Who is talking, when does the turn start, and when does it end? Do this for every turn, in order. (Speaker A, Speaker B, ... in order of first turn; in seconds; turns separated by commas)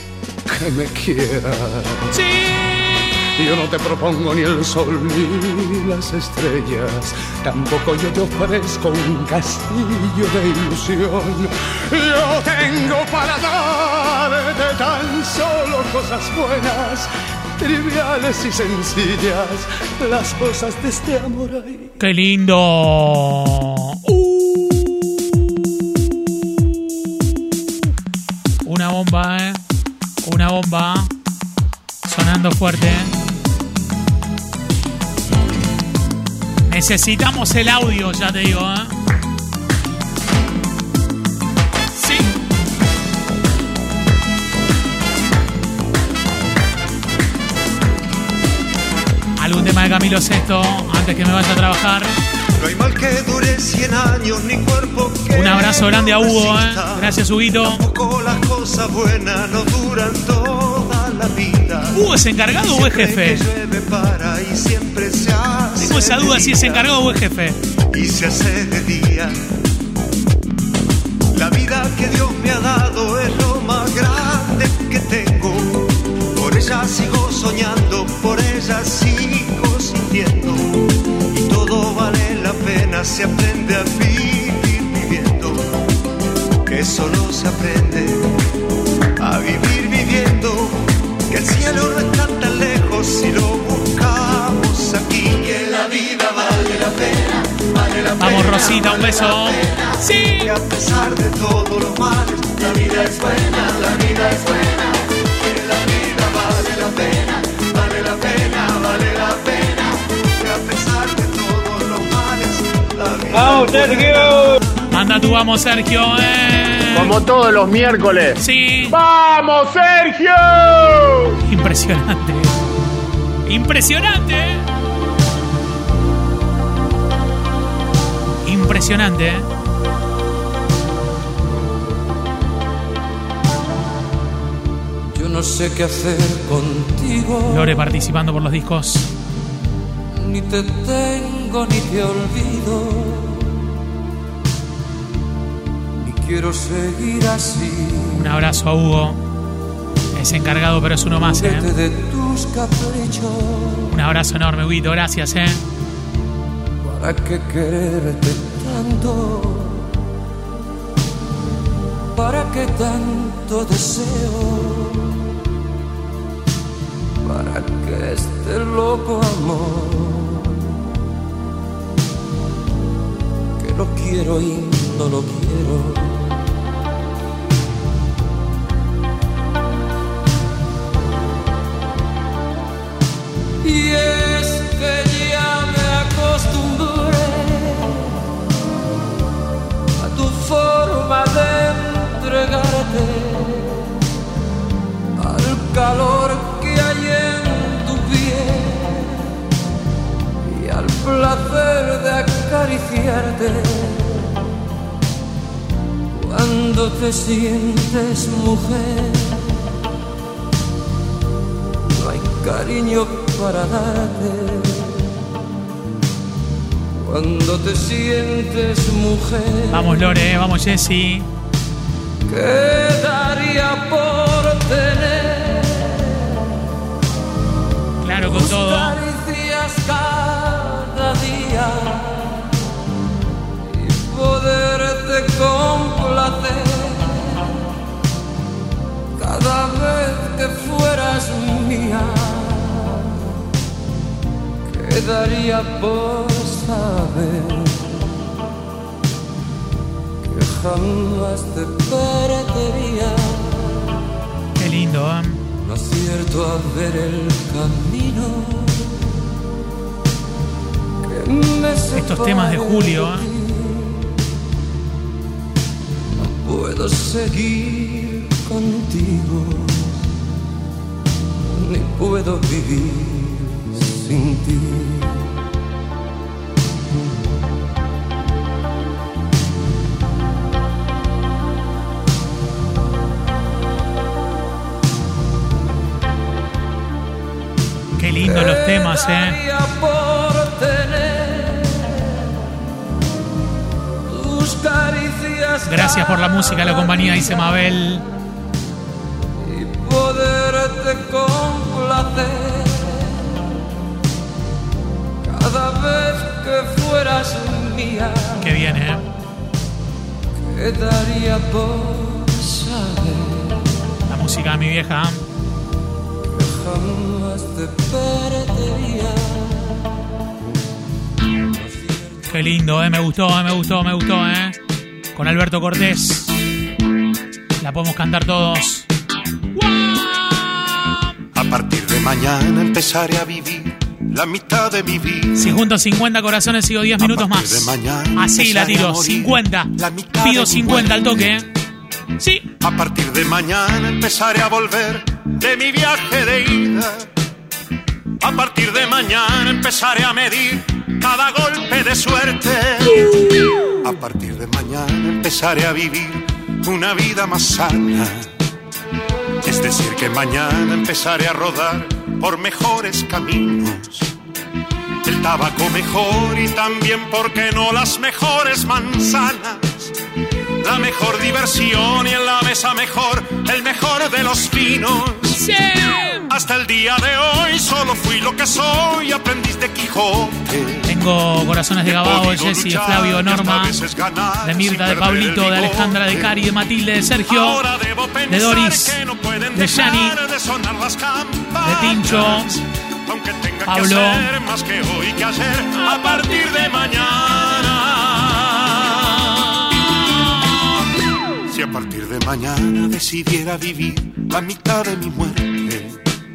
Speaker A: 0.5-2.2, Speaker B: 2.1-3.1, Speaker A: 3.4-22.0, Speaker B: 22.0-24.0, Speaker A: 24.4-24.9, Speaker B: 28.6-29.6, Speaker B: 30.2-31.1, Speaker B: 32.0-33.1, Speaker B: 36.7-38.9, Speaker B: 41.9-42.3, Speaker B: 49.4-52.1, Speaker C: 52.6-67.0, Speaker B: 55.3-57.8, Speaker B: 61.9-63.5, Speaker B: 65.8-67.6, Speaker C: 67.9-69.3, Speaker C: 71.3-85.7, Speaker C: 86.6-88.3, Speaker C: 89.2-114.5, Speaker B: 98.2-100.5, Speaker D: 113.3-114.6, Speaker B: 114.9-117.2, Speaker D: 116.9-121.4, Speaker B: 118.4-119.0, Speaker B: 121.4-122.5, Speaker B: 123.5-124.6, Speaker B: 128.4-129.5, Speaker E: 135.1-137.9, Speaker B: 137.5-139.1, Speaker E: 140.1-143.7, Speaker E: 146.0-148.3, Speaker B: 148.1-149.2, Speaker B: 150.1-151.7, Speaker E: 151.2-153.9, Speaker B: 153.9-155.6, Speaker E: 156.8-159.9, Speaker E: 162.1-165.2, Speaker E: 167.2-170.8, Speaker E: 173.6-176.4, Speaker E: 183.6-188.3, Speaker E: 190.0-194.0, Speaker E: 195.2-199.4, Speaker E: 200.4-204.5, Speaker E: 206.1-209.7, Speaker E: 211.9-215.2, Speaker E: 216.9-220.2, Speaker B: 219.7-221.3, Speaker E: 222.3-226.6, Speaker B: 228.0-229.0, Speaker E: 228.2-232.5, Speaker E: 233.7-237.6, Speaker E: 239.2-243.3, Speaker E: 244.7-248.1, Speaker E: 250.2-254.0, Speaker B: 254.6-255.4, Speaker E: 255.6-259.1, Speaker E: 261.0-264.2, Speaker B: 261.9-263.3, Speaker E: 266.2-270.0, Speaker E: 271.5-275.4, Speaker B: 288.0-289.4, Speaker E: 288.2-292.4, Speaker E: 294.1-297.8, Speaker B: 295.6-298.0, Speaker E: 299.4-303.6, Speaker E: 305.2-308.7, Speaker B: 308.4-309.0, Speaker E: 310.4-313.8, Speaker B: 314.1-315.2, Speaker E: 316.3-320.0, Speaker E: 321.5-322.6, Speaker B: 322.3-324.6, Speaker B: 325.1-326.4, Speaker B: 327.6-328.9, Speaker B: 329.5-331.0, Speaker F: 331.3-335.6, Speaker B: 335.3-341.4, Speaker F: 337.0-341.4, Speaker B: 342.2-342.5, Speaker F: 342.6-347.1, Speaker F: 348.2-358.3, Speaker F: 359.4-364.1, Speaker F: 365.0-369.9, Speaker F: 370.6-375.4, Speaker B: 375.4-376.3, Speaker F: 376.3-380.9, Speaker B: 380.8-383.8, Speaker F: 381.8-386.4, Speaker B: 384.4-387.6, Speaker F: 387.3-399.3, Speaker B: 388.3-389.0, Speaker B: 389.5-390.2, Speaker B: 391.6-392.6, Speaker B: 393.7-394.3, Speaker B: 395.8-396.4, Speaker F: 401.5-406.0